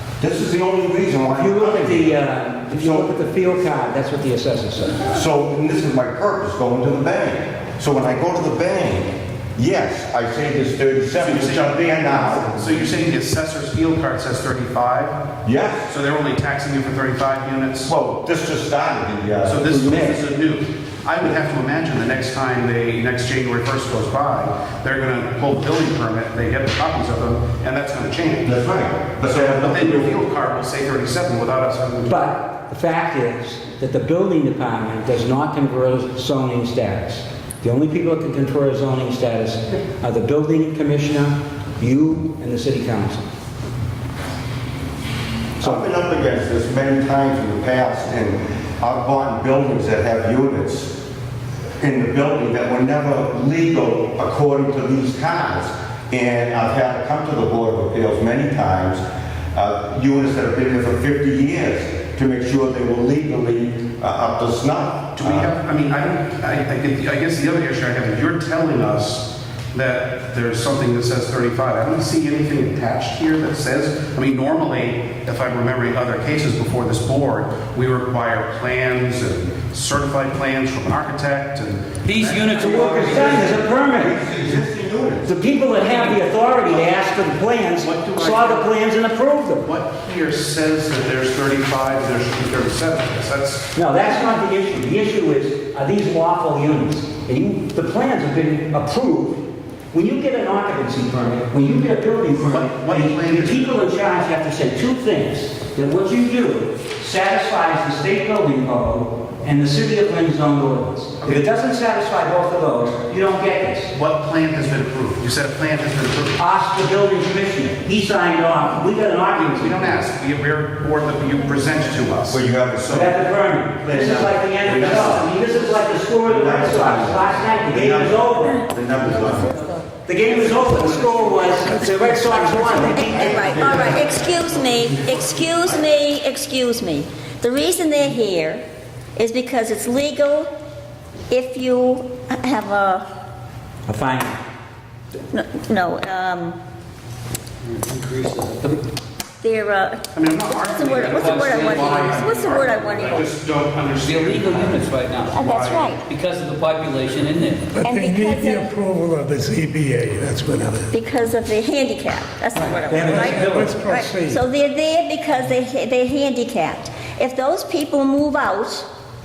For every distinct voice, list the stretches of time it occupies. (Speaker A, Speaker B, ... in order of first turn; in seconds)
Speaker A: 0.2-2.2, 2.7-3.4, 5.0-12.5, 15.4-15.9, 17.9-20.1, 28.4-30.1, 45.6-51.0, 51.8-59.0, 59.5-65.5, 82.6-85.4, 122.3-123.1, 123.8-125.3, 126.2-129.7, 133.1-134.3
Speaker B: 1.3-5.0, 32.1-43.3, 45.6-45.9, 82.3-84.2, 85.2-89.7, 93.7-113.9, 116.4-120.0, 122.9-128.6, 130.0-133.4, 143.9-144.4, 162.8-163.8
Speaker C: 11.2-15.2, 15.9-17.9, 19.4-28.6, 29.2-32.2, 65.2-83.2, 86.1-88.7, 89.6-93.7, 102.4-103.8, 113.9-116.4, 119.3-123.2, 123.9-125.7, 130.3-131.2, 133.4-135.5, 150.1-156.0
Speaker D: 82.0-83.5, 147.6-148.8, 151.1-153.1, 154.0-155.4, 156.0-157.7
Speaker E: 132.0-133.0, 157.7-160.9, 163.0-164.4
Speaker F: 132.8-138.6, 139.2-140.5, 141.3-143.0, 145.3-146.6, 149.4-153.3, 155.3-156.0, 157.8-158.7, 160.9-168.9